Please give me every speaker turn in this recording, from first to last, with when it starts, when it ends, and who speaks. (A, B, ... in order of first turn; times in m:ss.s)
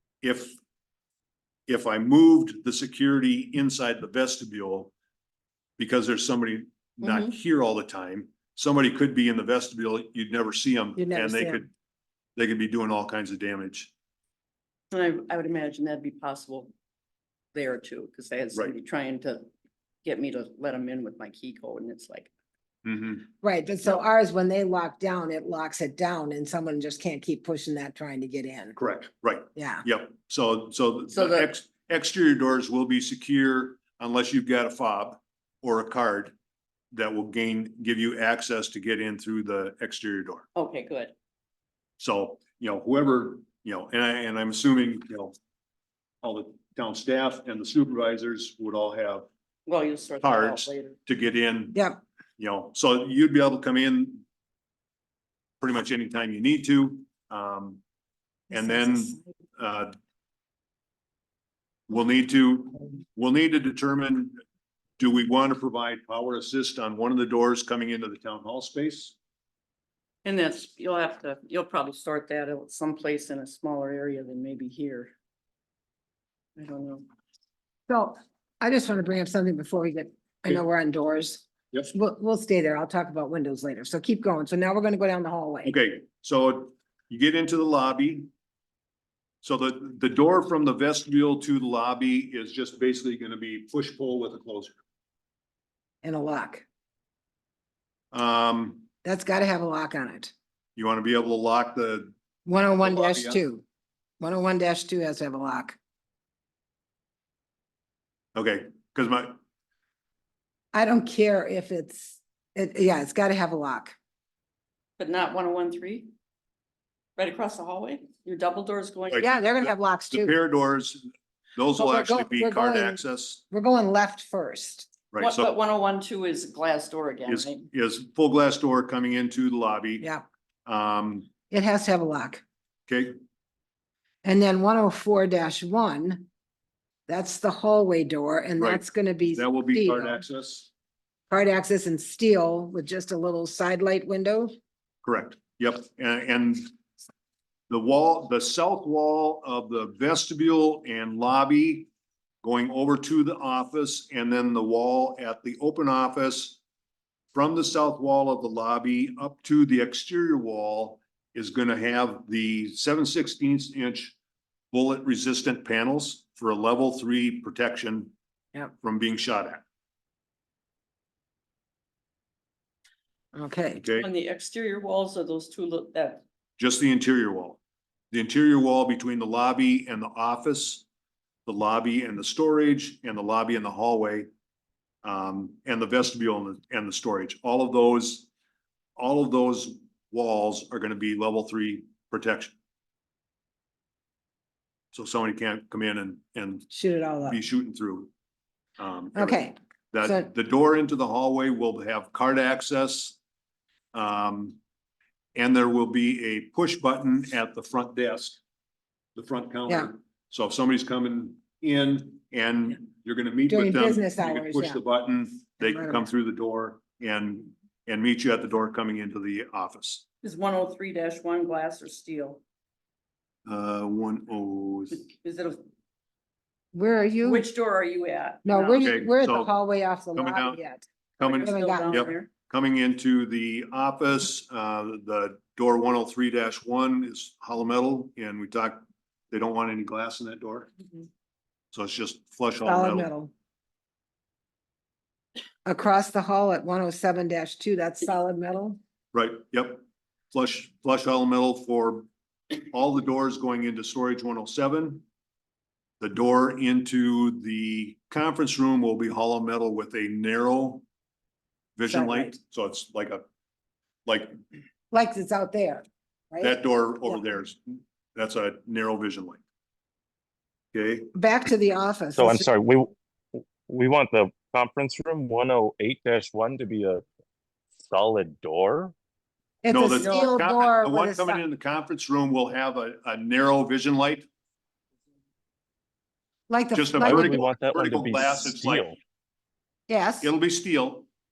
0:00.2-0:00.6 A
0:01.7-0:04.9 A
0:05.8-0:11.7 A
0:07.0-0:07.4 B
0:11.0-0:11.6 C
0:12.4-0:13.9 A
0:14.9-0:16.7 B
0:17.5-0:19.5 B
0:20.0-0:22.3 B
0:22.8-0:23.3 A
0:23.4-0:28.8 C
0:28.8-0:36.3 A
0:29.6-0:29.8 C
0:31.1-0:31.5 B
0:36.9-0:40.5 A
0:40.5-0:41.1 B
0:42.0-0:45.3 A
0:46.2-0:49.3 A
0:49.6-0:51.0 B
0:50.2-0:51.8 A
0:51.7-0:52.0 C
0:52.4-0:54.2 A
0:55.6-0:57.8 A
0:58.5-0:59.9 A
0:58.6-0:59.2 C
1:01.9-1:04.4 A
1:05.0-1:09.1 A
1:10.2-1:15.1 B
1:16.6-1:17.0 B
1:17.9-1:25.8 C
1:25.6-1:28.3 A
1:29.4-1:34.8 A
1:36.0-1:36.6 C
1:38.1-1:38.9 A
1:39.0-1:40.3 C
1:40.8-1:42.1 A
1:42.4-1:43.6 C
1:42.8-1:43.4 A
1:44.2-1:45.8 C
1:48.3-1:49.4 A
1:50.7-1:53.9 C
1:55.0-1:56.1 B
1:57.2-1:59.3 B
1:59.1-2:03.4 A
1:59.2-2:00.3 C
2:01.8-2:04.9 C
2:05.1-2:05.5 A
2:05.2-2:07.7 B
2:07.3-2:10.0 A
2:10.0-2:10.2 C
2:10.6-2:11.4 A
2:11.5-2:12.4 C
2:12.9-2:13.2 A
2:14.2-2:16.3 C
2:17.1-2:20.2 C
2:19.3-2:20.7 A
2:21.3-2:24.5 C
2:25.0-2:26.7 A
2:27.7-2:31.9 A
2:32.4-2:36.6 A
2:37.3-2:44.2 A
2:44.7-2:48.1 A
2:48.8-2:49.6 A
2:53.3-2:53.8 C
2:53.8-2:54.1 A
2:54.0-2:56.2 B
2:56.6-2:57.6 A
2:58.1-3:00.8 A
3:01.4-3:04.3 A
3:05.0-3:08.3 A
3:09.0-3:12.6 A
3:14.9-3:16.7 A
3:16.7-3:17.4 C
3:17.2-3:18.1 A
3:18.8-3:23.2 A
3:19.1-3:20.3 C
3:23.9-3:24.6 A
3:25.4-3:28.4 A
3:29.2-3:40.0 A
3:33.5-3:34.8 C
3:35.6-3:36.1 C
3:40.2-3:42.4 B
3:43.4-3:45.0 A
3:45.0-3:45.6 B
3:46.7-3:47.5 C
3:47.2-3:49.0 B
3:48.4-3:52.1 C
3:48.8-3:49.5 A
3:50.1-3:50.6 A
3:51.2-3:52.3 B
3:51.2-4:00.8 A
4:01.7-4:03.1 A
4:02.6-4:03.3 C
4:05.6-4:08.8 C
4:09.1-4:15.0 A
4:16.0-4:20.8 A
4:21.8-4:23.2 A
4:21.9-4:22.4 C
4:24.0-4:24.4 A
4:24.9-4:27.2 C
4:26.4-4:29.4 A
4:30.7-4:31.1 A
4:31.1-4:32.4 C
4:32.1-4:37.0 D
4:37.9-4:38.9 D
4:39.6-4:41.4 C
4:39.7-4:44.3 A
4:46.5-4:47.4 C
4:46.7-4:48.9 A
4:47.0-4:49.0 D
4:49.9-4:50.3 C
4:50.2-4:51.1 A